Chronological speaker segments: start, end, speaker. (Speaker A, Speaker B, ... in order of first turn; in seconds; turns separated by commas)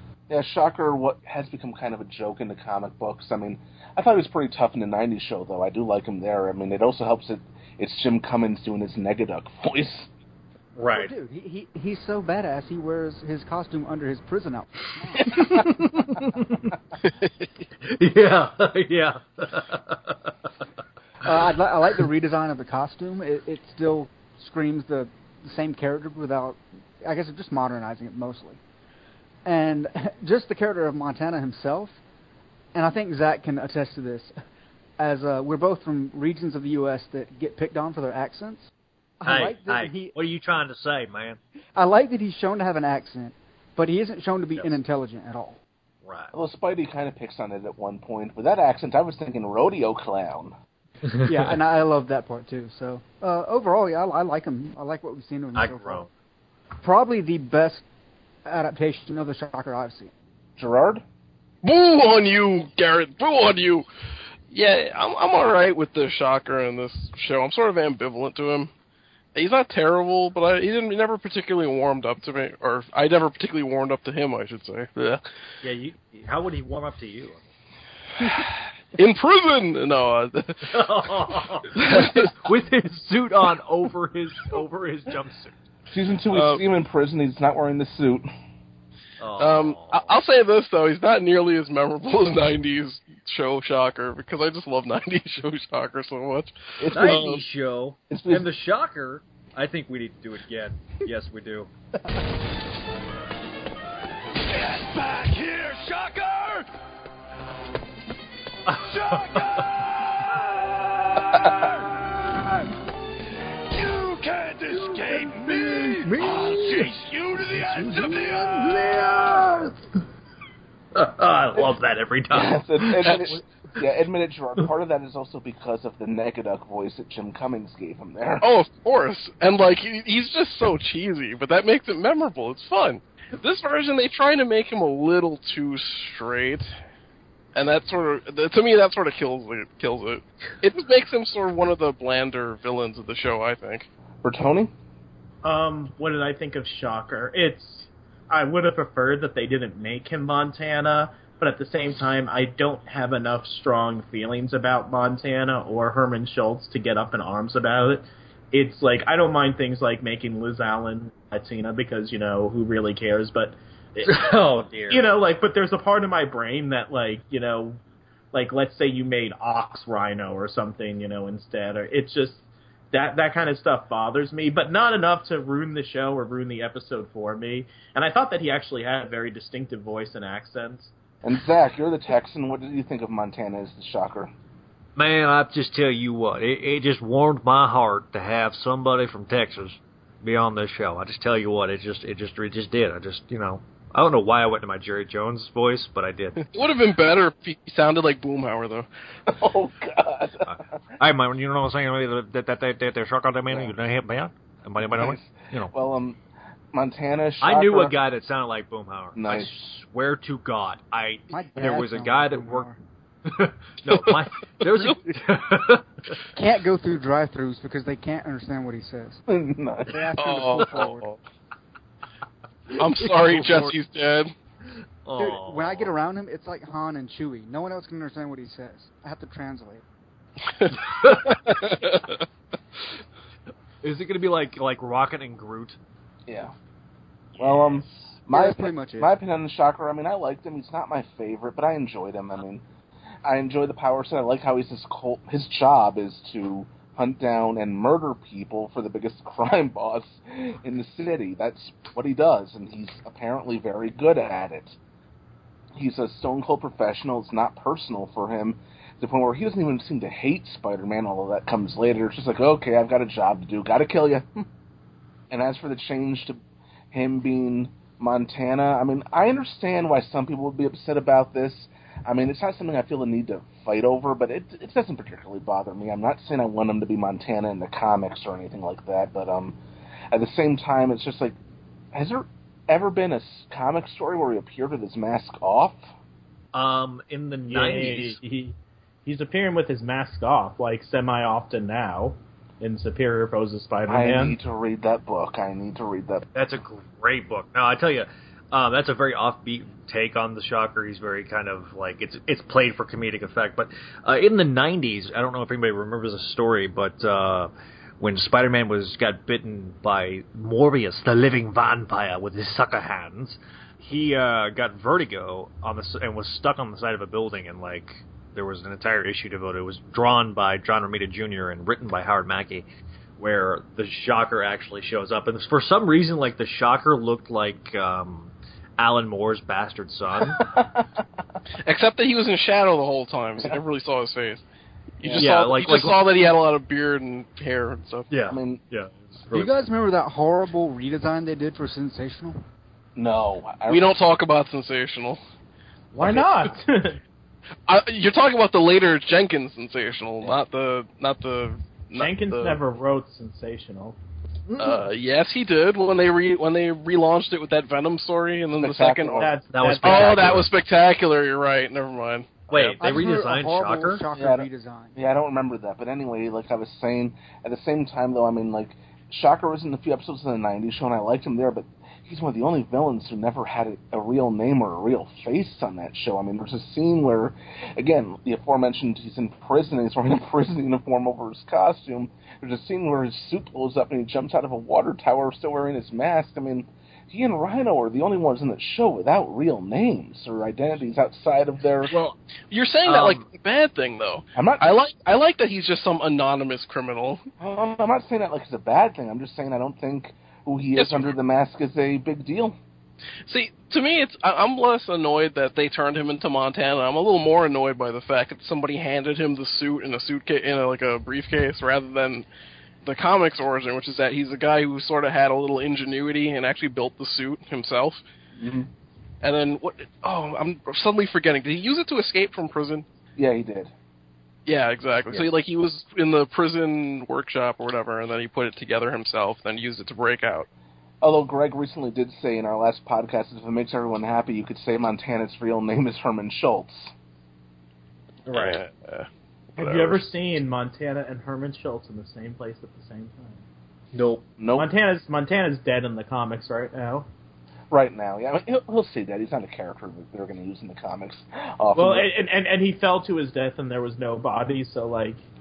Speaker A: 0.3-10.1, Speaker B: 10.8-11.1, Speaker C: 10.9-15.7, Speaker B: 15.3-16.4, Speaker B: 17.9-20.3, Speaker C: 21.2-28.6, Speaker C: 29.4-32.0, Speaker C: 32.7-34.3, Speaker C: 35.0-38.7, Speaker C: 39.2-40.1, Speaker B: 39.2-41.4, Speaker C: 41.8-45.6, Speaker B: 46.0-46.3, Speaker A: 46.3-50.5, Speaker B: 51.0-51.3, Speaker C: 51.2-56.0, Speaker B: 55.5-56.1, Speaker C: 56.8-57.9, Speaker C: 58.5-60.1, Speaker A: 60.6-61.0, Speaker D: 61.6-63.9, Speaker D: 64.5-68.7, Speaker D: 69.3-75.2, Speaker B: 75.6-77.4, Speaker D: 79.0-80.9, Speaker B: 80.7-85.5, Speaker D: 81.8-82.3, Speaker A: 85.9-88.3, Speaker D: 86.3-86.6, Speaker B: 89.2-90.2, Speaker D: 89.4-97.3, Speaker A: 96.8-97.4, Speaker B: 96.9-101.7, Speaker A: 98.1-98.5, Speaker E: 104.5-106.7, Speaker B: 108.7-109.3, Speaker E: 108.8-112.0, Speaker E: 113.7-118.6, Speaker B: 116.2-116.7, Speaker B: 117.8-119.7, Speaker B: 121.0-123.4, Speaker A: 122.3-128.5, Speaker D: 128.4-136.7, Speaker D: 137.6-143.9, Speaker A: 144.2-144.7, Speaker F: 145.4-164.3, Speaker B: 164.0-165.1, Speaker F: 164.9-167.8, Speaker F: 168.3-180.9, Speaker A: 181.2-184.3, Speaker B: 185.0-196.5, Speaker D: 196.5-198.9, Speaker A: 199.3-200.6, Speaker B: 200.5-205.7, Speaker A: 204.8-206.2, Speaker A: 206.7-207.9, Speaker B: 207.4-212.7, Speaker A: 209.2-209.5, Speaker C: 211.3-212.8, Speaker B: 213.3-215.9, Speaker C: 216.3-219.2, Speaker A: 219.3-220.0, Speaker C: 219.9-221.1, Speaker D: 220.2-221.2, Speaker D: 222.8-224.3, Speaker B: 223.0-223.8, Speaker B: 225.1-225.9, Speaker C: 225.2-229.8, Speaker B: 231.0-231.4, Speaker D: 231.5-232.2, Speaker B: 233.8-235.8, Speaker A: 236.3-236.5, Speaker A: 237.4-242.6, Speaker B: 237.4-237.8, Speaker C: 238.3-239.1, Speaker A: 243.3-254.8, Speaker A: 255.8-264.4, Speaker A: 265.3-266.4, Speaker A: 266.9-279.6, Speaker A: 280.1-281.4, Speaker A: 281.9-285.8, Speaker B: 286.5-288.2, Speaker F: 287.4-294.4, Speaker A: 293.9-296.3, Speaker B: 296.3-322.7, Speaker B: 323.2-330.5, Speaker A: 330.3-330.7, Speaker D: 331.6-334.4, Speaker D: 335.0-338.1, Speaker A: 335.0-335.3, Speaker B: 335.2-336.0, Speaker B: 338.1-339.6, Speaker A: 338.3-338.6, Speaker C: 339.3-342.4, Speaker A: 343.0-343.9, Speaker D: 343.7-345.2, Speaker F: 345.9-347.0, Speaker D: 346.0-346.3, Speaker D: 347.7-352.6, Speaker F: 352.0-354.0, Speaker B: 354.5-354.8, Speaker D: 354.6-359.3, Speaker A: 358.6-359.4, Speaker F: 359.2-360.3, Speaker B: 359.5-360.5, Speaker D: 359.8-362.4, Speaker A: 360.0-360.3, Speaker B: 362.5-364.0, Speaker A: 362.5-363.0, Speaker C: 362.8-365.0, Speaker A: 364.1-391.9, Speaker D: 392.5-397.2, Speaker A: 394.4-394.6, Speaker A: 397.4-402.6, Speaker D: 400.8-401.1, Speaker D: 403.3-412.3, Speaker D: 412.8-418.0, Speaker A: 418.4-418.7, Speaker D: 419.2-422.9, Speaker A: 423.2-423.7, Speaker D: 424.5-430.5, Speaker A: 431.0-436.9, Speaker B: 438.3-438.6, Speaker D: 438.3-440.0, Speaker F: 439.6-443.4, Speaker B: 443.9-444.2, Speaker A: 444.4-444.7, Speaker F: 444.6-447.1, Speaker A: 447.7-452.1, Speaker F: 451.8-455.2